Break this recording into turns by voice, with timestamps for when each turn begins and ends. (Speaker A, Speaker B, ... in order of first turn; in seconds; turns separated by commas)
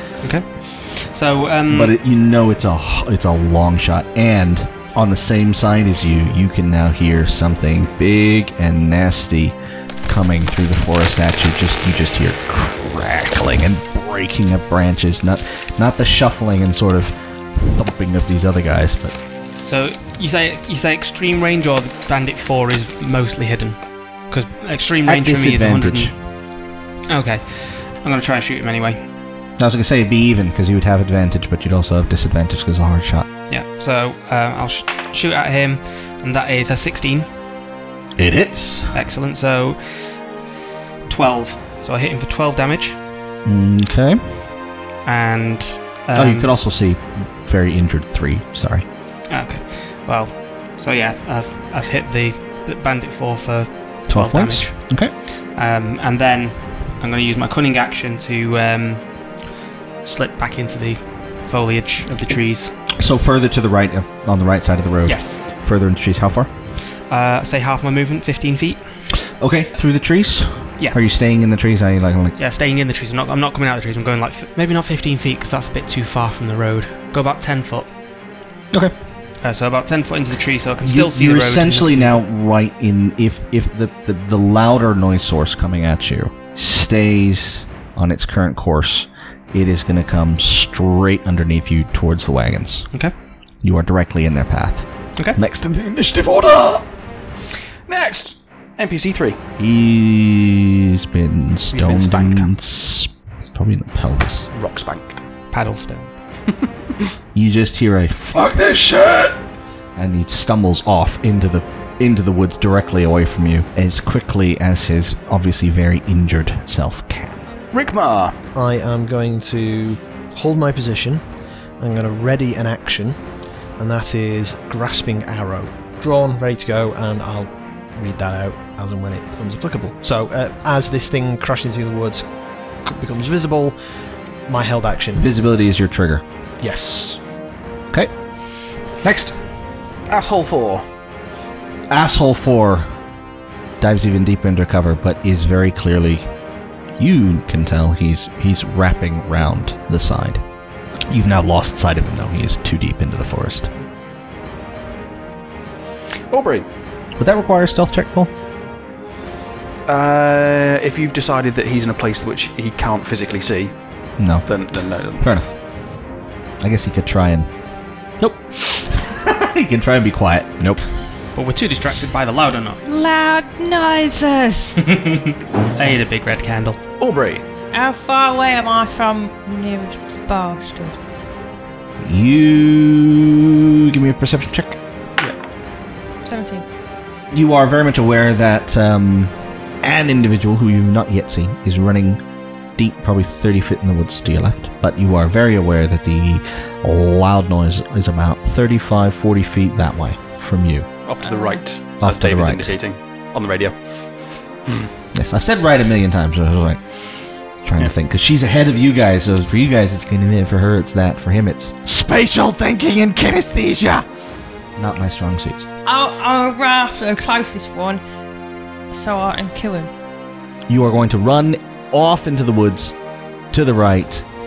Speaker A: 0.2-1.9, Speaker B: 1.7-19.2, Speaker A: 19.6-26.2, Speaker B: 25.1-26.1, Speaker A: 27.1-29.0, Speaker B: 29.6-33.3, Speaker A: 33.5-37.3, Speaker B: 38.2-38.9, Speaker A: 38.9-40.1, Speaker A: 41.0-43.0, Speaker B: 43.4-44.5, Speaker A: 45.0-46.5, Speaker B: 46.1-48.9, Speaker A: 49.3-59.0, Speaker B: 54.1-55.1, Speaker A: 60.0-62.7, Speaker B: 63.0-66.5, Speaker A: 65.0-65.4, Speaker A: 67.1-68.8, Speaker B: 69.4-72.4, Speaker A: 72.4-77.9, Speaker A: 79.4-82.2, Speaker B: 80.8-92.9, Speaker B: 93.6-96.9, Speaker C: 97.9-99.4, Speaker B: 99.6-104.5, Speaker C: 101.7-102.5, Speaker C: 104.5-105.2, Speaker A: 105.5-106.1, Speaker B: 107.3-109.4, Speaker B: 110.0-117.5, Speaker C: 117.7-118.4, Speaker D: 118.5-121.2, Speaker D: 121.8-123.2, Speaker D: 123.8-132.3, Speaker D: 132.8-133.8, Speaker D: 134.5-135.3, Speaker B: 135.1-136.2, Speaker D: 136.6-137.2, Speaker B: 139.0-139.4, Speaker C: 140.1-140.8, Speaker B: 141.9-142.9, Speaker B: 143.8-146.3, Speaker B: 147.0-150.4, Speaker B: 151.1-153.7, Speaker C: 156.3-156.7, Speaker B: 157.2-158.3, Speaker C: 159.9-163.8, Speaker B: 164.2-164.5, Speaker C: 164.4-165.3, Speaker B: 165.2-165.5, Speaker B: 166.6-167.5, Speaker B: 168.2-170.8, Speaker A: 171.3-172.8, Speaker E: 172.8-174.8, Speaker A: 174.8-176.8, Speaker C: 177.0-177.4, Speaker E: 177.7-181.0, Speaker B: 182.0-184.8, Speaker E: 186.2-186.6, Speaker B: 187.3-192.2, Speaker B: 192.8-200.9, Speaker C: 201.1-203.8, Speaker E: 201.2-201.6, Speaker B: 202.0-202.8, Speaker C: 204.7-204.9, Speaker B: 205.1-206.8, Speaker B: 207.6-214.1, Speaker B: 214.8-215.7, Speaker E: 215.9-218.0, Speaker E: 218.9-219.9, Speaker B: 220.7-222.9, Speaker B: 223.5-224.3